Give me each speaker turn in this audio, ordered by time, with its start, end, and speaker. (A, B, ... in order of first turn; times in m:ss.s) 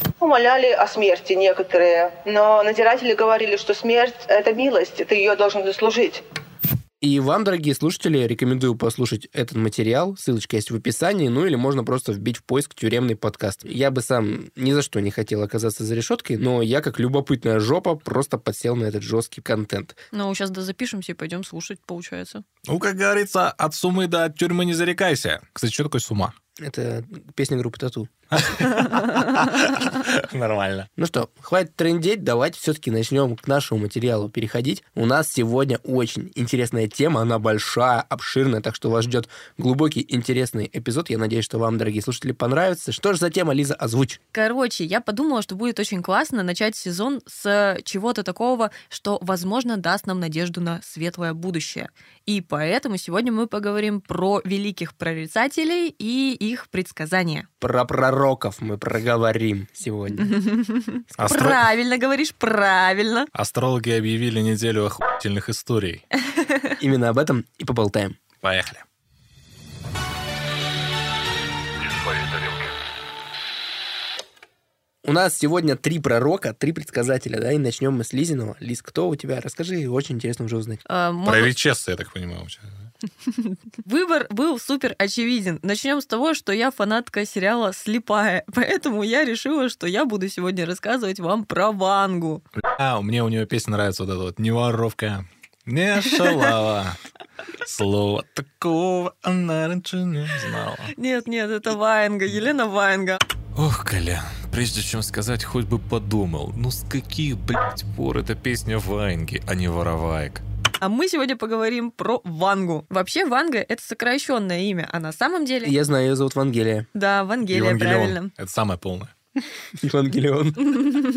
0:00.2-0:06.2 A
0:07.0-0:20.0 B
0:20.1-0:22.4 C
0:22.7-0:26.3 D
0:26.6-0:28.1 B
0:28.3-0:30.9 D
0:31.0-0:44.2 B
0:44.3-0:57.5 C
0:57.6-1:00.4 B
1:00.2-1:03.3 C
1:01.2-1:01.6 D
1:03.3-1:06.0 D
1:06.3-1:06.7 C
1:06.8-1:08.2 B
1:08.4-1:08.8 D
1:15.0-1:20.8 B
1:20.9-1:21.5 C
1:21.2-1:22.7 D
1:23.4-1:32.4 C
1:32.6-1:37.0 D
1:37.6-1:40.9 D
1:40.9-1:43.2 C
1:43.6-1:50.4 E
1:50.8-1:55.7 C
1:55.6-1:56.9 B
1:56.9-1:58.3 C
1:57.5-1:59.1 D
1:59.8-2:00.9 B